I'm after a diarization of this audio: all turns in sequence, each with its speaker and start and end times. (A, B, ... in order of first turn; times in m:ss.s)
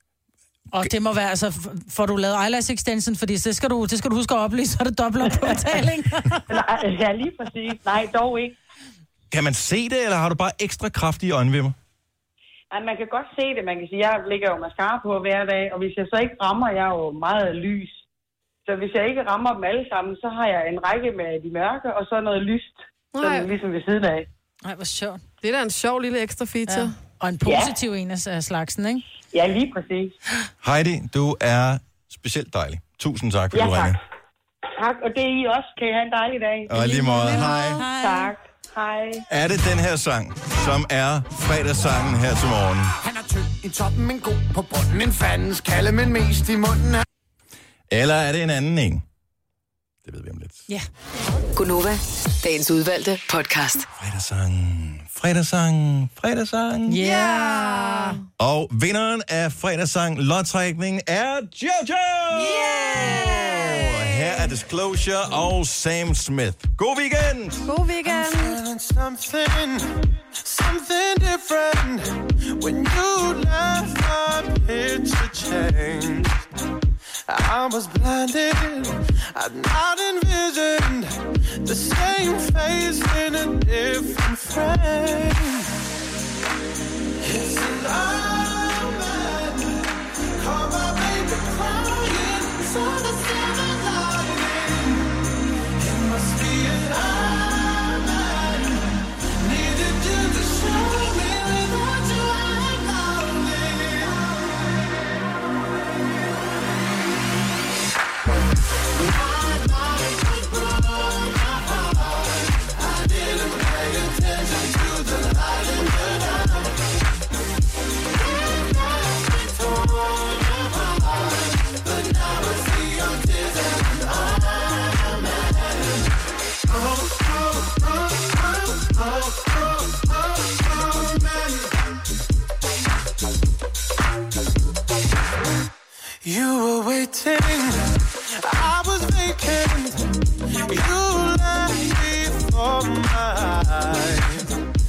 0:00.7-0:06.4 A
0:06.5-0:08.6 B
0:09.3-0:11.8 C
0:12.7-0:18.0 B
0:18.6-0:24.3 B
0:23.1-0:23.5 D
0:24.6-0:25.2 A
0:25.4-0:27.0 D
0:26.7-0:29.0 A
0:27.4-0:27.7 B
0:29.3-0:30.2 B
0:30.6-0:34.0 C
0:33.5-0:34.0 B
0:34.7-0:39.2 B
0:36.7-0:37.8 C
0:36.8-0:37.8 D
0:37.3-0:38.3 A
0:39.3-0:42.9 C
0:43.5-0:47.0 E
0:47.9-0:49.0 C
0:50.0-0:50.7 C
0:51.5-0:53.9 F
0:53.9-0:57.0 C
0:56.9-0:58.2 A
0:57.0-0:58.2 D
0:58.4-1:07.7 C
1:02.3-1:04.5 D
1:07.6-1:08.6 D
1:08.0-1:16.4 G
1:17.3-1:25.7 G
1:27.2-1:35.2 G
1:35.8-1:45.2 G
1:48.9-1:57.0 G
1:58.1-2:06.1 G
2:06.7-2:11.8 G
2:16.2-2:24.6 G